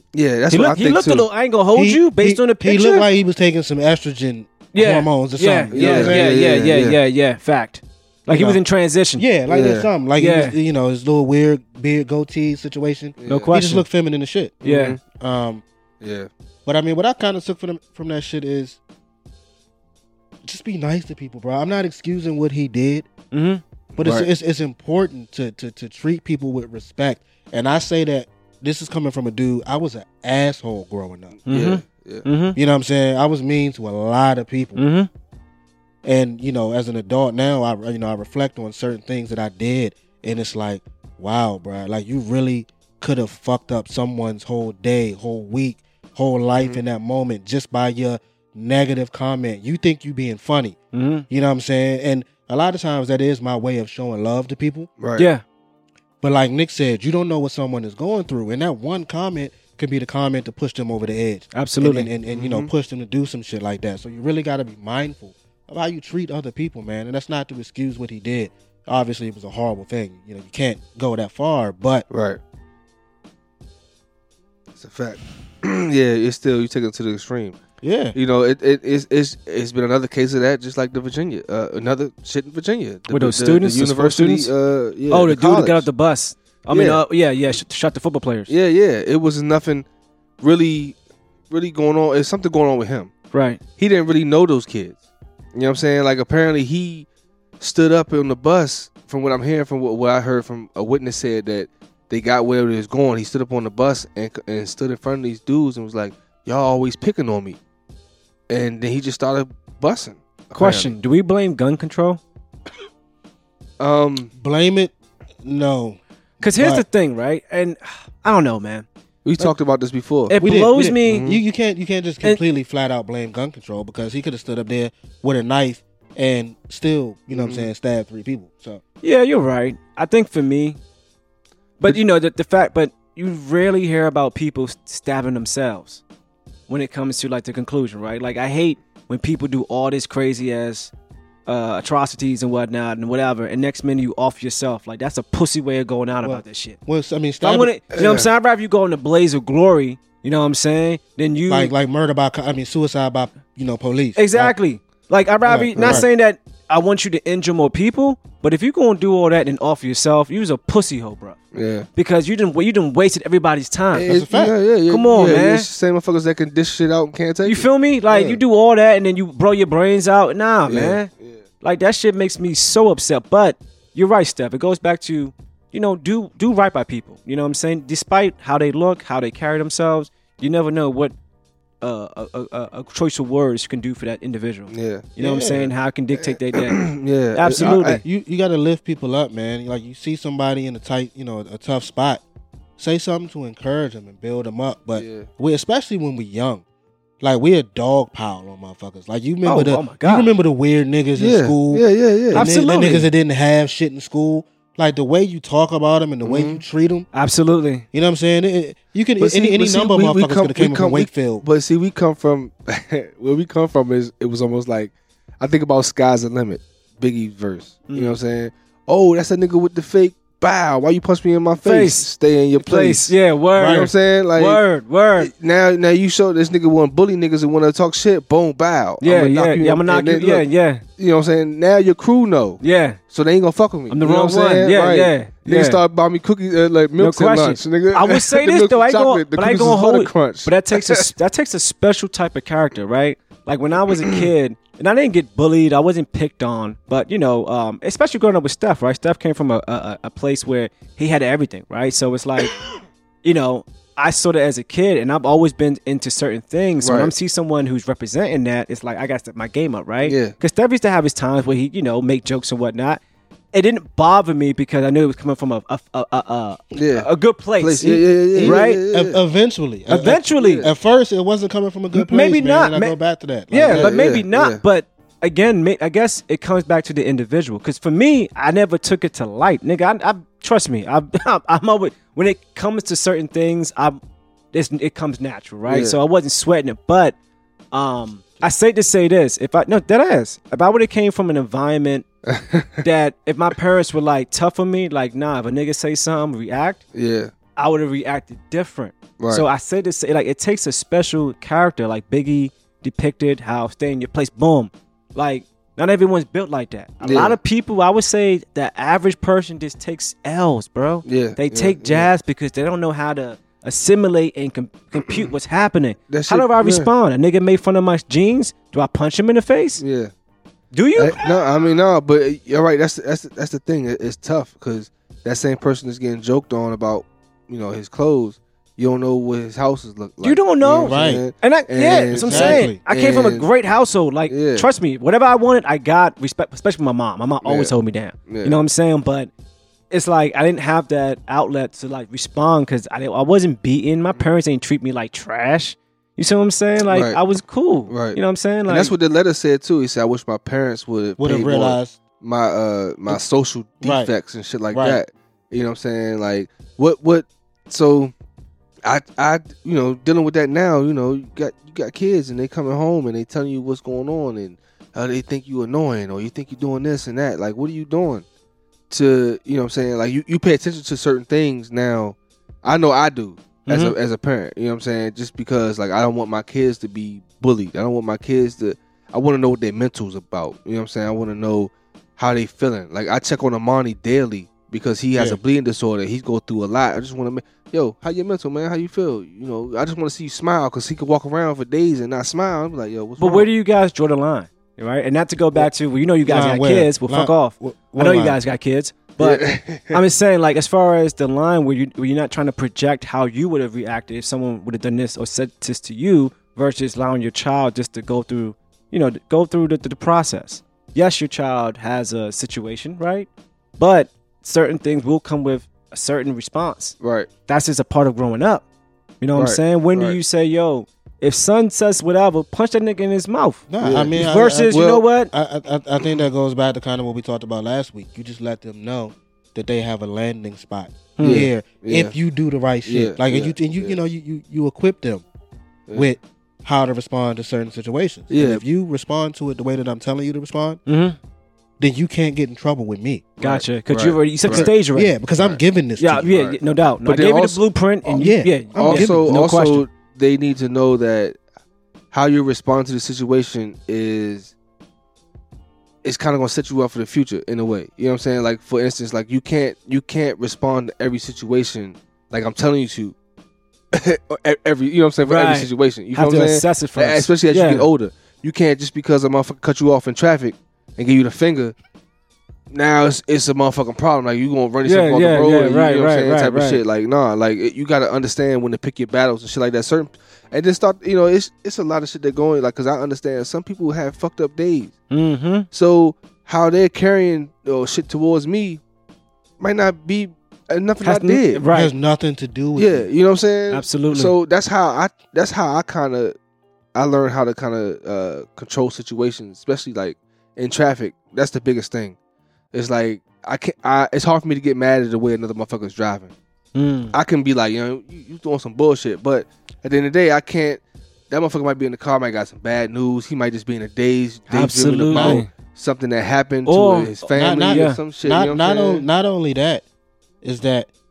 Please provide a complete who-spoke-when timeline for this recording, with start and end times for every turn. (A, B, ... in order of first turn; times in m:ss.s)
0:00.1-0:01.3 A
0:00.5-0:03.1 B
0:01.7-0:06.2 C
0:04.7-0:09.2 B
0:05.7-0:07.0 A
0:08.3-0:08.6 C
0:09.2-0:15.6 C
0:09.5-0:09.9 A
0:10.2-0:10.6 B
0:13.2-0:13.5 A
0:13.2-0:13.8 B
0:14.6-0:15.0 A
0:14.6-0:15.0 B
0:16.0-0:16.3 A
0:16.6-0:18.8 C
0:20.4-0:23.1 C
0:23.3-0:23.6 B
0:23.9-0:24.3 A
0:24.0-0:31.4 C
0:31.4-0:32.2 A
0:31.5-0:32.6 B
0:32.6-0:34.8 C
0:34.8-0:35.1 B
0:36.0-0:50.8 C
0:50.9-0:51.2 B
0:51.3-0:54.9 C
0:55.0-0:55.3 A
0:55.2-0:55.4 B
0:56.2-1:12.0 C
1:01.5-1:02.1 B
1:02.3-1:02.7 A
1:12.1-1:12.4 A
1:14.8-1:17.6 A
1:17.8-1:18.2 C
1:18.1-1:25.9 A
1:23.1-1:24.5 B
1:25.1-1:28.5 B
1:26.7-1:27.0 A
1:28.5-1:29.8 A
1:30.4-1:31.0 A
1:31.5-1:33.1 A
1:33.3-1:33.6 B
1:33.8-1:35.0 A
1:35.5-1:37.1 A
1:37.6-1:47.6 A
1:48.5-1:50.9 A
1:50.5-1:52.2 B
1:53.8-1:54.3 A
1:54.3-1:54.9 C
1:55.4-1:56.8 C
1:56.4-1:58.9 B
1:59.2-2:00.3 A
2:00.3-2:01.2 B
2:00.4-2:08.8 C
2:01.0-2:01.4 A
2:07.3-2:07.7 A
2:09.0-2:10.8 B
2:11.8-2:16.0 B
2:16.7-2:20.9 B
2:21.4-2:26.8 B
2:26.2-2:27.7 C
2:27.4-2:31.7 B
2:27.9-2:28.3 A
2:31.5-2:34.5 C
2:34.2-2:41.4 B
2:35.4-2:36.1 C
2:35.8-2:36.1 A
2:41.5-2:41.9 A
2:41.9-2:44.1 B
2:43.9-2:48.4 A
2:44.0-2:44.5 C
2:44.9-2:45.7 B
2:47.4-2:51.1 B
2:50.7-2:51.4 A
2:51.6-3:01.1 B
3:01.8-3:08.0 B
3:04.7-3:05.1 A
3:05.2-3:05.7 C
3:06.1-3:08.0 A
3:07.5-3:12.2 C
3:12.8-3:16.6 C
3:14.9-3:15.3 A
3:17.2-3:27.1 C
3:19.4-3:20.3 B
3:21.2-3:22.5 A
3:22.3-3:23.1 B
3:26.2-3:26.6 A
3:27.1-3:27.8 B
3:27.9-3:31.4 C
3:29.2-3:44.6 A
3:37.9-3:38.2 B
3:41.6-3:45.3 B
3:43.6-3:43.9 C
3:45.2-3:50.4 A
3:49.0-3:50.8 B
3:51.0-4:01.0 A
3:52.6-3:53.0 B
3:53.9-3:55.8 B
3:57.0-4:12.6 B
4:04.0-4:04.3 A
4:13.2-4:23.0 B
4:16.8-4:17.1 A
4:20.0-4:20.3 A
4:23.5-4:28.8 B
4:26.7-4:29.2 A
4:27.8-4:33.9 C
4:29.9-4:30.7 B
4:30.4-4:30.7 A
4:31.9-4:33.0 B
4:33.5-4:44.0 B
4:33.6-4:34.6 A
4:44.5-4:47.2 B
4:45.7-4:46.0 A
4:47.7-4:52.0 B
4:52.3-4:52.8 A
4:52.8-4:56.8 B
4:56.9-4:57.3 A
4:57.6-5:19.8 B
4:59.2-4:59.4 A
5:07.0-5:07.4 A
5:11.0-5:12.1 A
5:15.0-5:15.3 A
5:16.1-5:16.9 A
5:19.8-5:20.1 A
5:20.7-5:21.2 B
5:21.0-5:33.5 A
5:30.2-5:39.3 B
5:30.8-5:31.2 C
5:32.1-5:32.8 C
5:34.3-5:34.7 A
5:37.4-5:37.7 A
5:38.3-5:38.6 A
5:39.9-5:48.9 B
5:46.9-5:47.2 A
5:47.9-5:58.1 A
5:51.2-5:52.0 C
5:53.8-5:54.1 C
5:54.7-5:55.0 C
5:58.8-6:08.2 A
6:08.9-6:33.5 A
6:13.6-6:13.9 B
6:33.2-6:58.6 B
6:36.2-6:38.4 C
6:39.2-6:40.0 A
6:57.0-6:57.3 A
6:59.2-7:03.6 B
6:59.4-7:00.2 A
7:03.7-7:15.2 C
7:03.8-7:05.0 A
7:04.2-7:05.3 B
7:11.2-7:11.5 B
7:11.2-7:12.1 A
7:12.8-7:14.0 A
7:15.9-7:20.8 C
7:18.3-7:18.6 A
7:20.9-7:21.2 B
7:21.8-7:23.4 C
7:23.4-7:25.1 B
7:23.4-7:24.7 A
7:24.5-7:26.3 C
7:26.0-7:29.8 B
7:26.2-7:27.6 A
7:28.0-7:29.3 C
7:28.8-7:31.4 A
7:32.1-7:34.5 A
7:36.0-7:43.1 A
7:43.9-7:51.7 A
7:45.2-7:47.9 B
7:52.7-8:05.0 A
7:54.8-7:56.8 B
8:05.1-8:05.7 B
8:05.7-8:08.8 A
8:09.6-8:11.6 A
8:11.0-8:11.9 B
8:11.7-8:13.1 C
8:12.8-8:16.3 A
8:13.7-8:14.3 B
8:16.9-8:22.2 A
8:22.7-8:26.3 A
8:26.7-8:27.1 B
8:27.1-8:39.0 A
8:34.5-8:35.5 B
8:35.1-8:35.4 C
8:36.7-8:38.0 B
8:37.3-8:39.8 C
8:40.4-8:40.9 C